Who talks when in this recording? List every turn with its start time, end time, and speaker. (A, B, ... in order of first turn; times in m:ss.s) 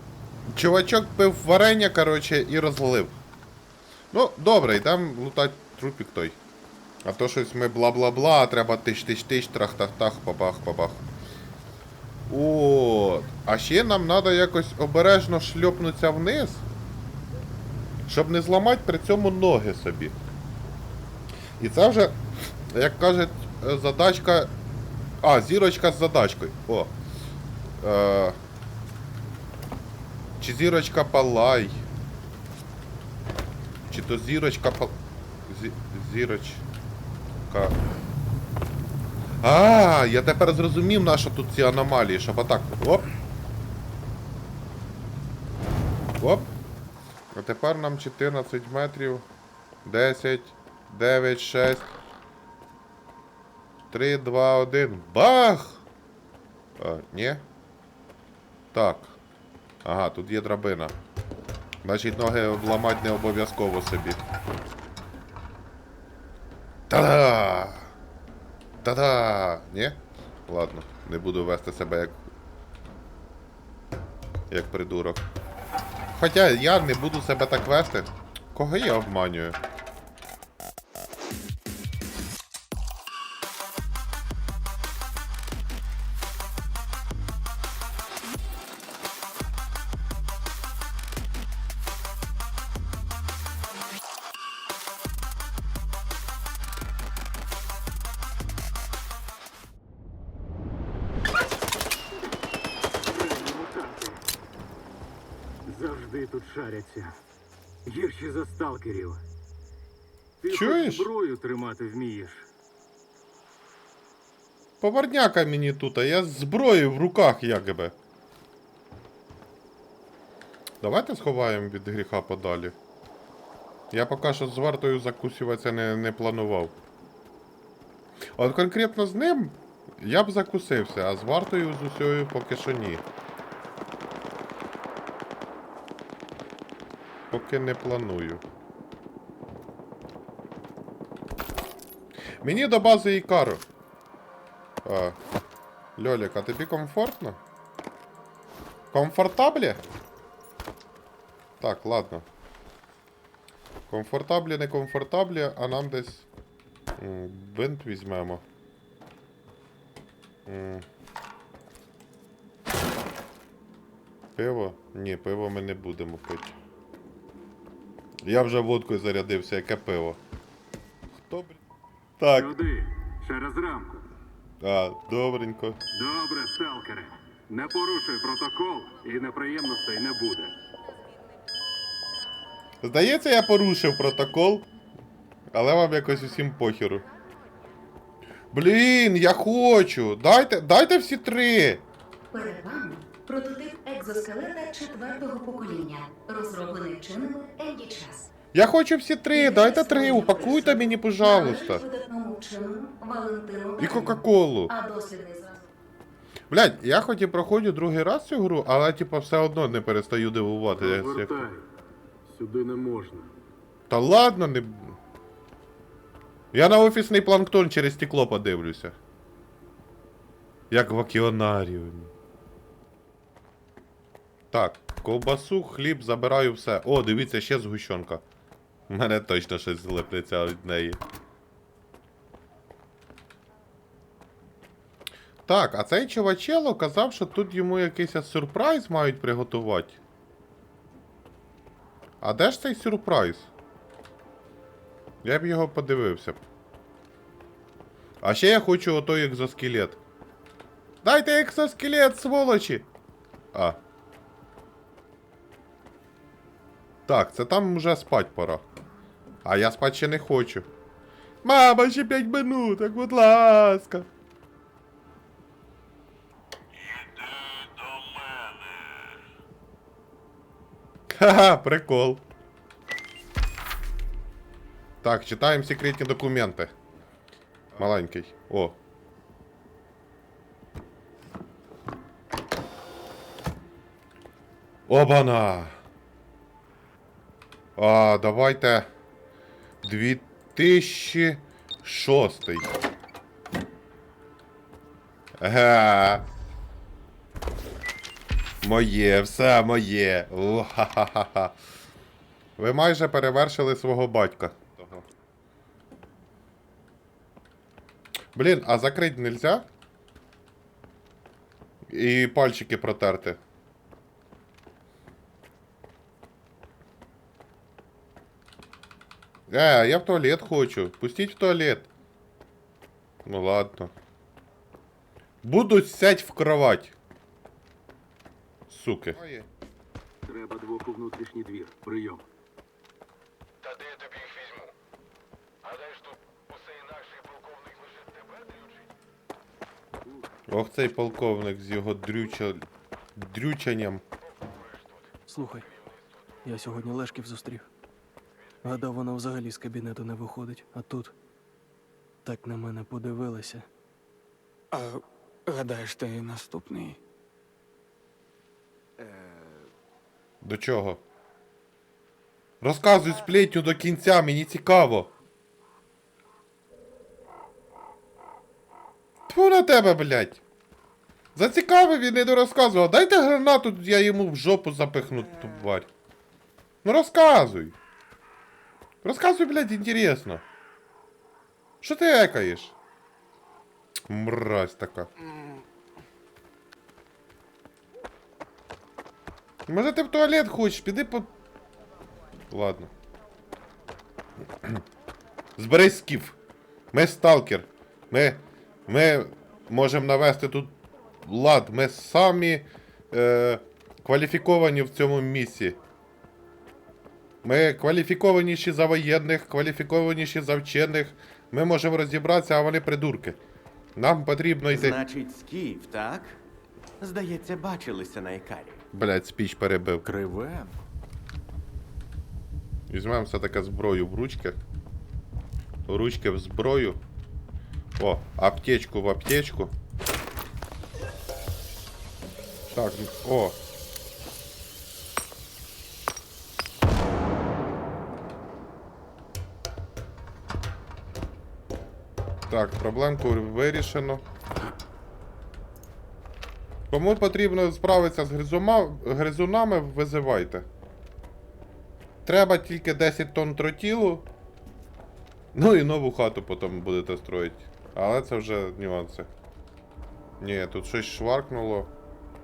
0:00.5-0:03.2 A
0:04.1-0:06.4 A
0:07.0-0:11.0 A
0:12.3-0:16.6 A
0:18.1-0:20.2 A
0:21.6-0:22.2 A
0:22.7-0:24.5 A
0:25.2-0:26.9 A
0:27.8-0:28.4 A
0:30.4-0:31.8 A
0:33.9-0:34.9 A
0:35.5-0:36.6 A
0:37.5-0:37.8 A
0:39.4-0:43.1 A
0:46.2-0:46.5 A
0:47.3-0:49.2 A
0:49.8-0:51.9 A
0:53.9-0:55.8 A
0:56.8-0:57.4 A
0:58.7-0:59.2 A
0:59.8-1:00.9 A
1:01.8-1:04.2 A
1:06.9-1:07.9 A
1:08.8-1:12.2 A
1:14.5-1:15.2 A
1:16.2-1:19.6 A
1:43.0-1:44.2 B
1:45.7-1:47.2 B
1:47.9-1:49.2 B
1:50.4-1:52.5 B
1:50.5-1:51.1 A
1:54.8-1:57.9 A
2:00.8-2:02.8 A
2:03.9-2:06.8 A
2:08.4-2:13.0 A
2:17.3-2:18.4 A
2:22.4-2:23.6 A
2:24.8-2:25.2 A
2:26.0-2:27.4 A
2:28.9-2:29.8 A
2:31.6-2:32.2 A
2:33.9-2:36.3 A
2:37.0-2:38.4 A
2:40.5-2:40.8 A
2:44.4-2:46.5 A
2:48.2-2:50.2 A
2:51.3-2:51.6 A
2:52.2-2:52.5 A
2:52.3-2:54.0 B
2:54.6-2:55.8 A
2:55.9-3:00.5 B
3:02.8-3:04.7 A
3:05.5-3:07.0 A
3:08.5-3:11.8 A
3:12.3-3:18.3 C
3:18.5-3:21.8 A
3:19.3-3:25.7 C
3:23.8-3:24.7 A
3:26.5-3:31.5 A
3:30.8-3:31.6 B
3:32.3-3:33.3 B
3:33.9-3:35.0 A
3:36.5-3:39.0 A
3:40.7-3:42.1 A
3:44.5-3:48.2 A
3:48.9-3:51.0 A
3:55.5-4:00.0 A
4:02.2-4:03.5 A
4:05.2-4:06.4 A
4:08.2-4:10.0 A
4:11.0-4:12.9 A
4:13.5-4:13.8 A
4:17.1-4:18.6 A
4:19.4-4:20.7 A
4:21.4-4:24.1 A
4:31.1-4:32.2 A
4:35.0-4:36.7 A
4:37.8-4:38.8 A
4:44.9-4:45.7 A
4:47.8-4:48.9 A
4:49.8-4:52.7 A
4:55.4-4:56.2 A
4:58.6-5:01.5 A
5:02.6-5:05.0 A
5:08.4-5:09.7 A
5:11.9-5:13.4 A
5:19.5-5:21.9 A
5:23.3-5:23.9 A
5:25.4-5:26.9 A
5:28.7-5:29.4 A
5:30.3-5:32.2 B
5:33.6-5:34.7 D
5:35.6-5:38.8 D
5:40.5-5:42.6 A
5:43.2-5:44.0 A
5:45.3-5:45.7 E
5:46.4-5:47.7 E
5:48.6-5:51.1 E
5:52.2-5:53.7 E
5:54.7-5:57.0 F
5:59.0-5:59.6 G
6:00.4-6:01.0 A
6:02.6-6:05.1 A
6:09.3-6:10.4 A
6:11.4-6:15.9 A
6:16.8-6:17.8 A
6:19.0-6:20.4 A
6:21.8-6:22.7 A
6:24.1-6:25.1 A
6:29.7-6:31.3 A
6:32.5-6:32.9 A
6:35.6-6:36.4 A
6:36.9-6:45.8 A
6:47.4-6:53.4 A
6:54.0-6:55.0 A
6:54.7-6:56.4 G
6:57.0-6:58.8 G
6:58.9-7:00.0 A
7:00.0-7:00.7 G
7:02.9-7:04.6 A
7:05.9-7:07.0 A
7:08.0-7:09.7 A
7:12.7-7:13.6 A
7:22.5-7:24.2 A
7:26.9-7:30.7 A
7:32.2-7:34.2 A
7:35.5-7:39.3 A
7:40.4-7:41.9 A